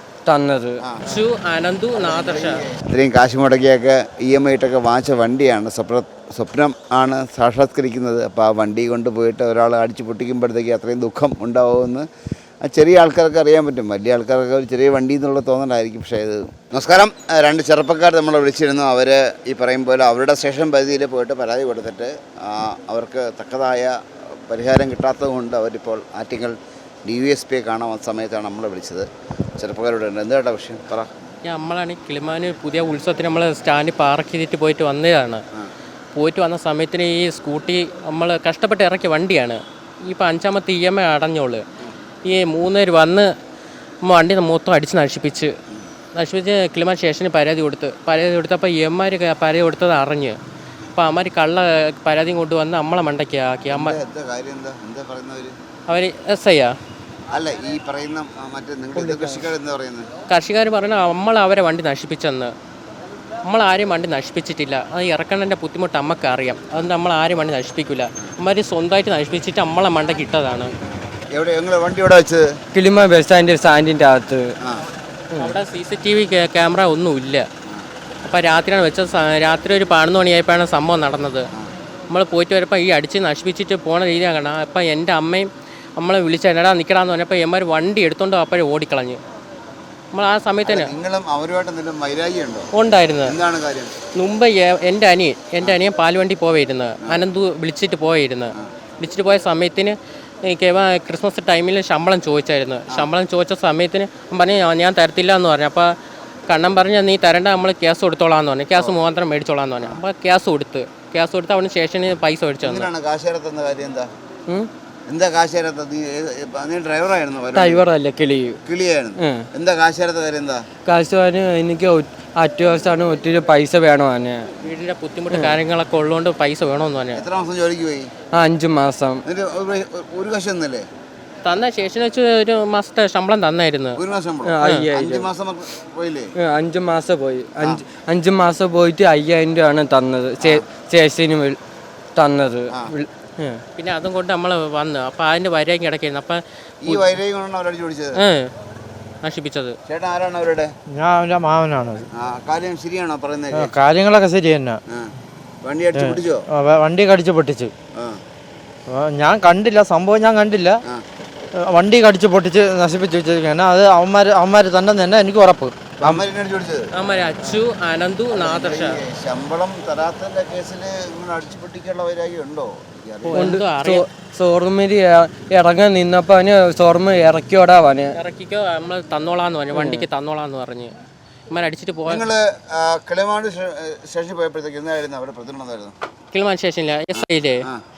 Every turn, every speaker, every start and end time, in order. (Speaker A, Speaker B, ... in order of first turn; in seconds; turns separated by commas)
Speaker A: 0.2-0.8, Speaker B: 0.8-1.1, Speaker C: 1.0-2.6, Speaker B: 1.9-12.1, Speaker B: 12.6-29.1, Speaker B: 29.6-31.1, Speaker C: 31.4-35.4, Speaker C: 36.1-41.6, Speaker C: 42.2-43.3, Speaker C: 44.0-45.5, Speaker C: 46.1-50.4, Speaker C: 50.9-54.0, Speaker B: 53.7-55.5, Speaker C: 55.9-56.7, Speaker B: 57.3-60.1, Speaker A: 59.0-59.5, Speaker C: 60.3-62.5, Speaker C: 63.4-70.7, Speaker B: 71.3-72.5, Speaker A: 72.7-74.5, Speaker C: 75.4-77.5, Speaker C: 78.2-81.5, Speaker C: 82.1-89.2, Speaker C: 90.1-90.9, Speaker B: 90.6-92.7, Speaker C: 92.7-93.4, Speaker B: 93.2-93.9, Speaker C: 94.1-106.0, Speaker C: 106.5-112.9, Speaker B: 112.6-114.1, Speaker B: 115.1-117.8, Speaker A: 117.5-118.6, Speaker B: 118.7-120.6, Speaker A: 119.2-119.5, Speaker A: 120.8-124.5, Speaker C: 124.6-127.2, Speaker A: 125.3-125.6, Speaker B: 127.1-128.1, Speaker A: 128.3-129.2, Speaker B: 129.2-130.8, Speaker C: 131.4-134.0, Speaker B: 134.0-136.3, Speaker A: 134.4-135.3, Speaker C: 134.6-134.9, Speaker A: 136.4-141.6, Speaker A: 142.2-143.6, Speaker C: 143.8-147.2, Speaker B: 146.8-148.2, Speaker C: 148.2-148.5, Speaker C: 149.2-149.8, Speaker B: 149.9-150.7, Speaker D: 150.9-152.1, Speaker B: 152.1-153.7, Speaker D: 153.5-154.8, Speaker B: 155.6-156.4, Speaker D: 155.9-157.7, Speaker D: 158.9-160.8, Speaker D: 161.5-166.2, Speaker B: 166.0-166.9, Speaker C: 166.9-169.0, Speaker B: 168.3-173.6, Speaker C: 173.2-174.1, Speaker A: 173.3-178.1, Speaker C: 178.1-180.9, Speaker A: 179.7-180.1, Speaker C: 181.5-182.3, Speaker B: 182.1-185.9, Speaker C: 186.3-187.6, Speaker B: 187.1-187.8